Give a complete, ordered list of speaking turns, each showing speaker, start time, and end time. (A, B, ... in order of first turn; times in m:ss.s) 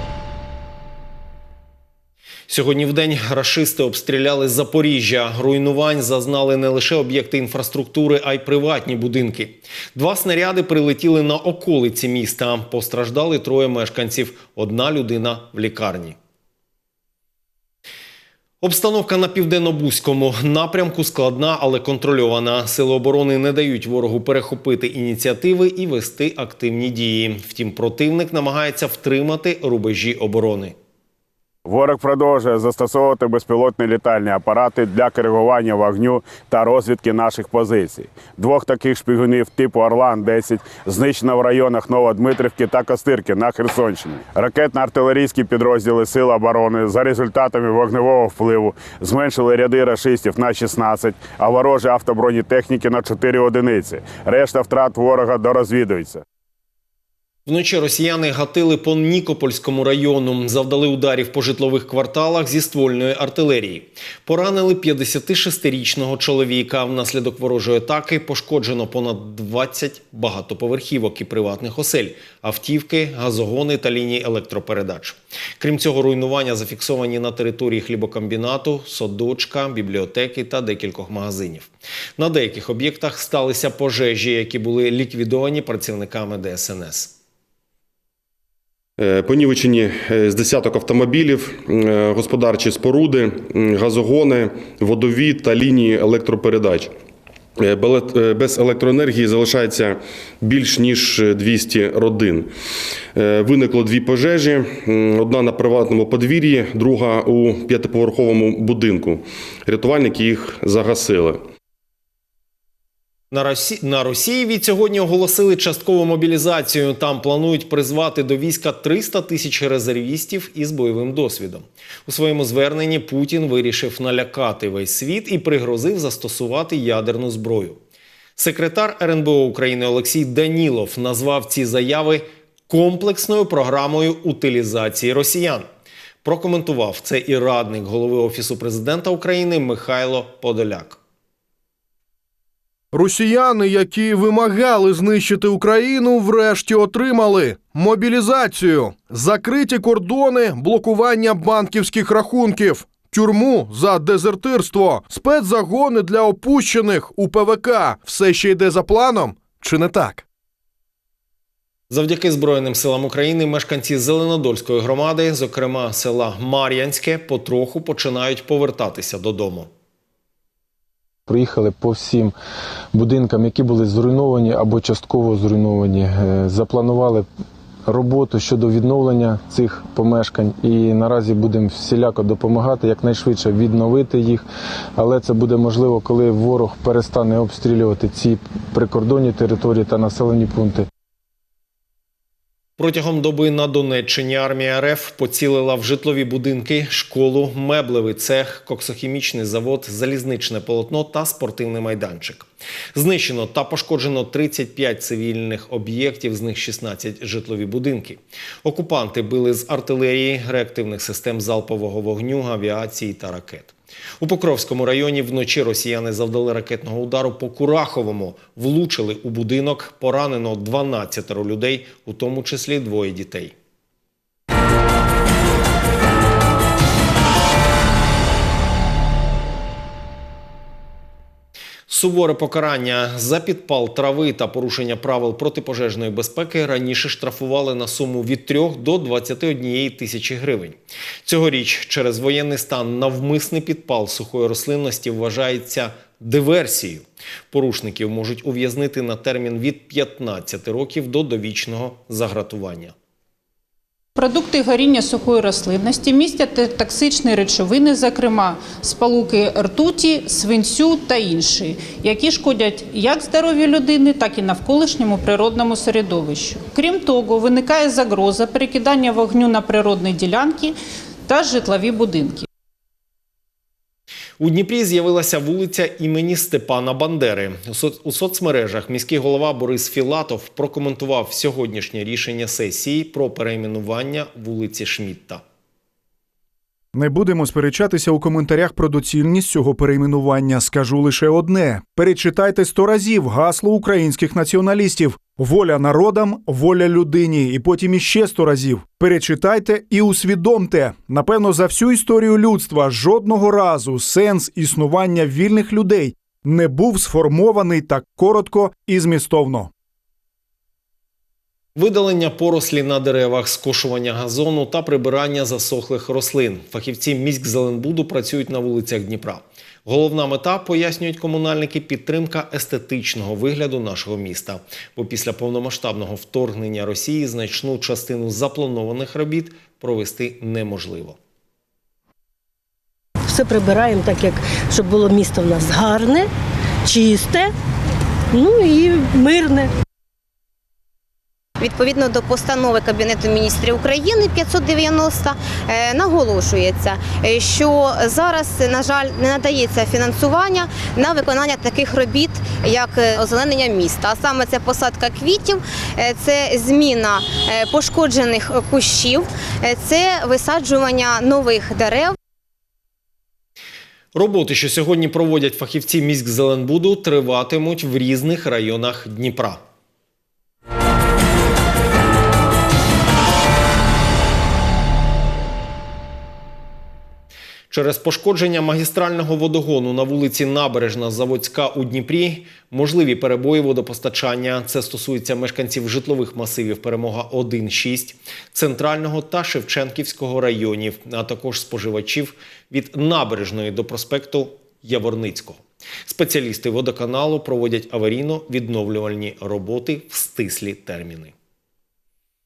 0:02.5-0:16.2 A
0:18.6-0:30.8 A
0:31.7-0:56.2 B
0:57.5-1:27.1 A
1:29.0-1:36.9 C
1:37.6-1:42.5 C
1:43.2-1:51.4 C
1:53.3-2:07.8 A
2:08.4-2:15.7 A
2:16.2-2:21.0 A
2:22.9-2:40.2 D
2:41.9-2:49.7 A
2:51.3-2:52.3 E
2:52.9-2:57.3 E
2:57.9-3:04.4 E
3:05.0-3:10.9 E
3:12.8-3:43.6 A
3:51.9-4:12.9 A
4:14.2-4:30.8 F
4:31.3-4:32.5 F
4:34.4-4:45.4 A
4:46.9-5:09.7 G
5:11.8-5:31.2 A
5:33.3-5:36.3 H
5:36.9-5:37.5 H
5:38.3-5:39.7 H
5:41.6-6:02.2 I
6:04.2-6:09.6 A
6:17.7-6:41.3 A